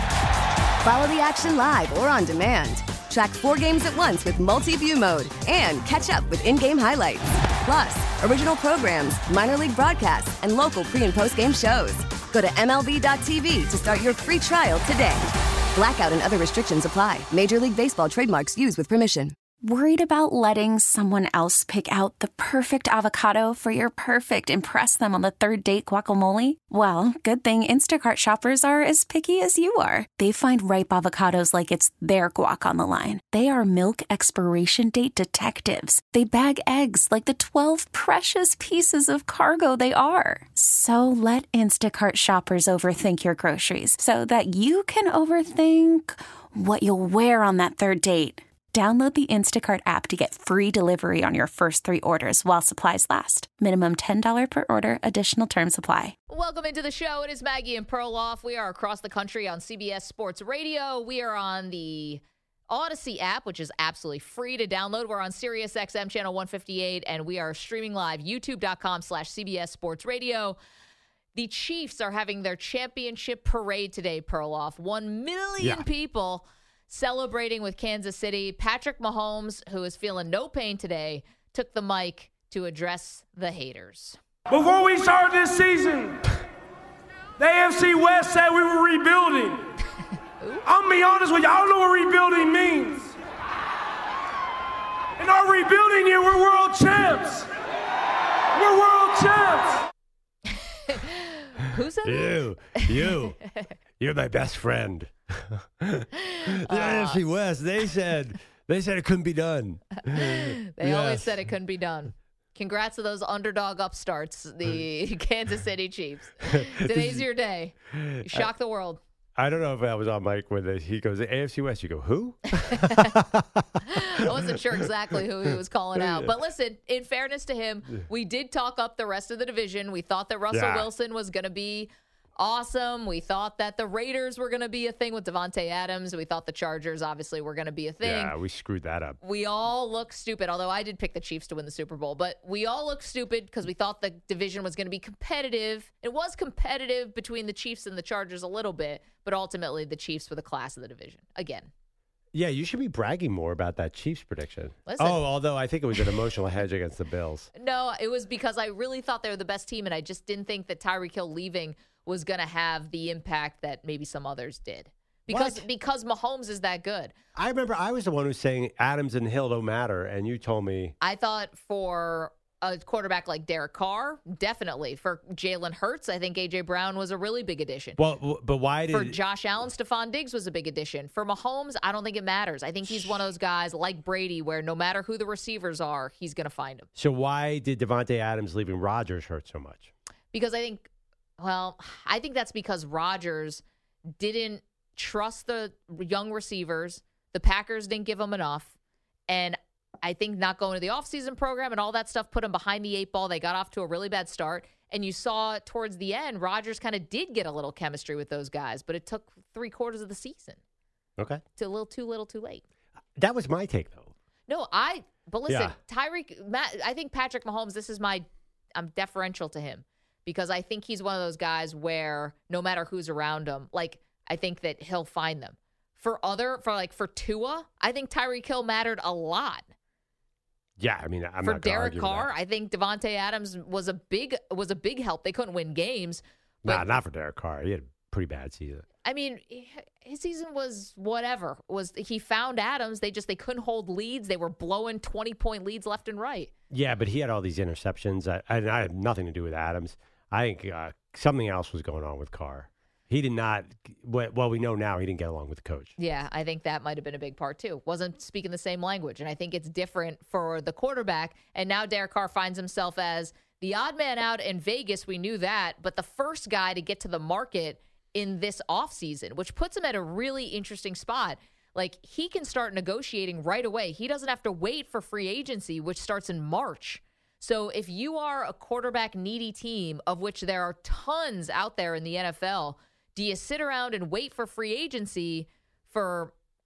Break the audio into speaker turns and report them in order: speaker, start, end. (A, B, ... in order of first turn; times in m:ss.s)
0:00.8-0:19.3 A
0:19.6-0:56.2 B
0:56.3-1:10.6 C
1:11.3-1:24.2 C
1:15.6-1:15.8 D
1:24.5-1:26.2 E
1:27.4-1:29.7 E
1:30.6-1:33.1 E
1:35.2-1:37.5 E
1:38.5-1:39.8 E
1:40.7-1:43.7 C
1:42.0-1:43.4 D
1:44.0-1:51.4 D
1:46.2-1:47.2 C
1:50.1-1:59.0 C
1:56.4-1:57.2 D
1:57.9-1:58.5 D
1:59.4-2:04.8 D
2:02.6-2:03.2 C
2:03.8-2:18.3 C
2:05.9-2:06.3 D
2:10.5-2:10.9 D
2:18.0-2:19.2 D
2:19.2-2:31.7 C
2:32.3-2:37.5 D
2:34.9-2:35.2 C
2:37.5-2:47.1 C
2:45.3-2:45.6 D
2:47.3-2:50.9 D
2:51.0-2:58.0 C
2:58.0-2:59.2 D
2:58.9-3:06.9 C
3:02.9-3:03.1 D
3:07.0-3:09.9 D
3:10.3-3:10.9 C
3:11.4-3:13.6 C
3:14.2-3:18.7 C
3:19.3-3:30.6 C
3:31.6-3:32.6 C
3:33.2-3:34.1 D
3:34.5-3:49.7 C
3:35.5-3:35.7 D
3:50.8-3:52.3 D
3:51.4-3:56.9 C
3:56.6-3:58.8 D
3:59.0-4:06.5 C
4:06.7-4:15.9 D
4:16.0-4:46.3 C